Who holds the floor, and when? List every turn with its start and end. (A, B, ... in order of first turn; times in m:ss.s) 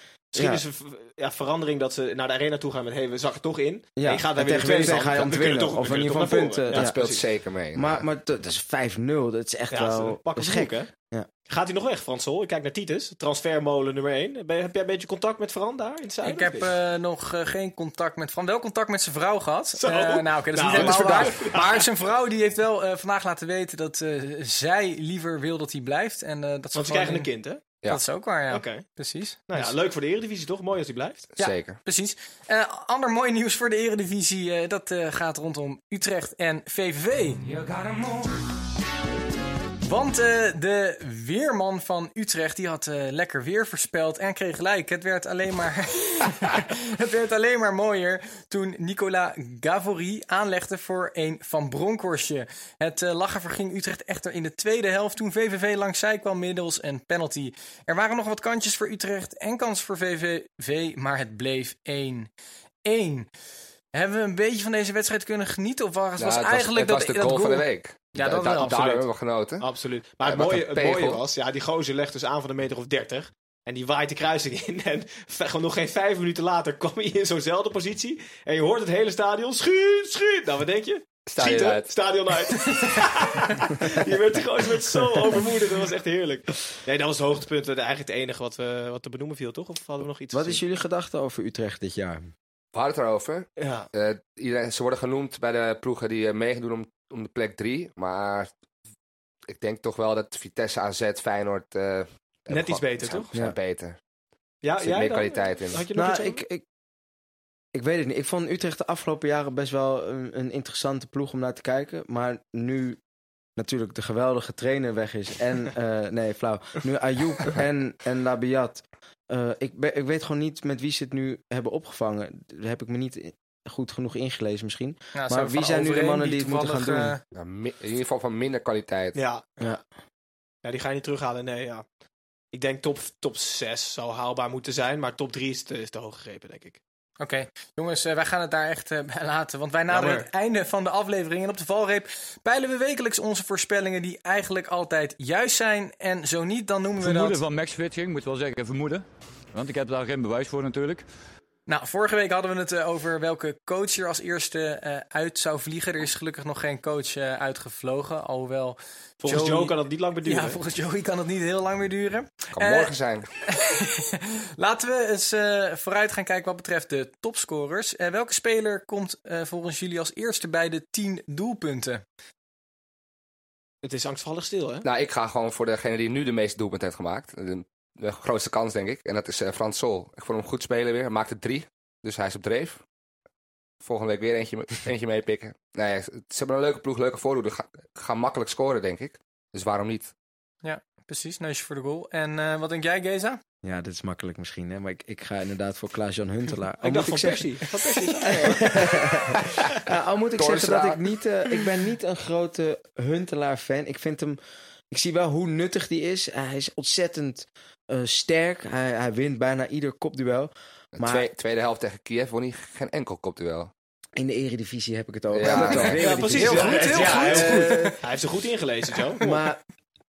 0:00.3-0:07.2 A
0:00.3-0:00.6 B
0:04.0-0:07.0 B
0:06.7-0:08.0 C
0:07.7-0:11.3 B
0:09.7-0:10.9 A
0:11.5-0:16.7 A
0:16.2-0:29.7 D
0:19.8-0:21.8 A
0:20.7-0:21.5 C
0:26.7-0:27.6 A
0:28.5-0:28.8 A
0:29.5-0:31.3 A
0:31.4-0:37.4 D
0:31.4-0:31.8 C
0:39.8-1:02.3 D
1:02.9-1:03.3 D
1:03.9-1:09.0 D
1:06.2-1:09.7 C
1:09.6-1:30.6 A
1:10.2-1:11.2 C
1:21.3-1:21.9 C
1:30.3-1:32.3 B
1:32.7-1:38.5 C
1:33.6-1:33.9 A
1:39.5-1:44.0 C
1:42.5-1:43.3 A
1:44.6-1:46.4 A
1:44.8-1:45.8 C
1:45.9-1:46.6 B
1:47.7-1:53.0 B
1:53.6-2:07.2 B
2:05.1-2:07.2 D
2:07.3-2:09.2 C
2:09.1-2:09.4 A
2:10.6-2:11.8 A
2:12.5-2:16.8 A
2:17.2-2:27.4 D
2:19.9-2:20.3 A
2:27.0-2:31.0 E
2:31.7-2:52.0 D
2:39.2-2:40.6 A
2:42.5-2:43.3 C
2:53.8-2:54.8 A
2:54.8-3:02.8 C
3:03.8-3:10.1 C
3:10.6-3:13.4 D
3:13.6-3:17.6 B
3:16.8-3:18.7 A
3:18.3-3:24.4 B
3:20.4-3:21.0 C
3:24.9-3:31.3 B
3:31.0-3:33.7 C
3:34.2-3:38.0 B
3:35.3-3:36.8 C
3:35.4-3:39.3 A
3:36.0-3:38.0 D
3:39.2-3:39.6 B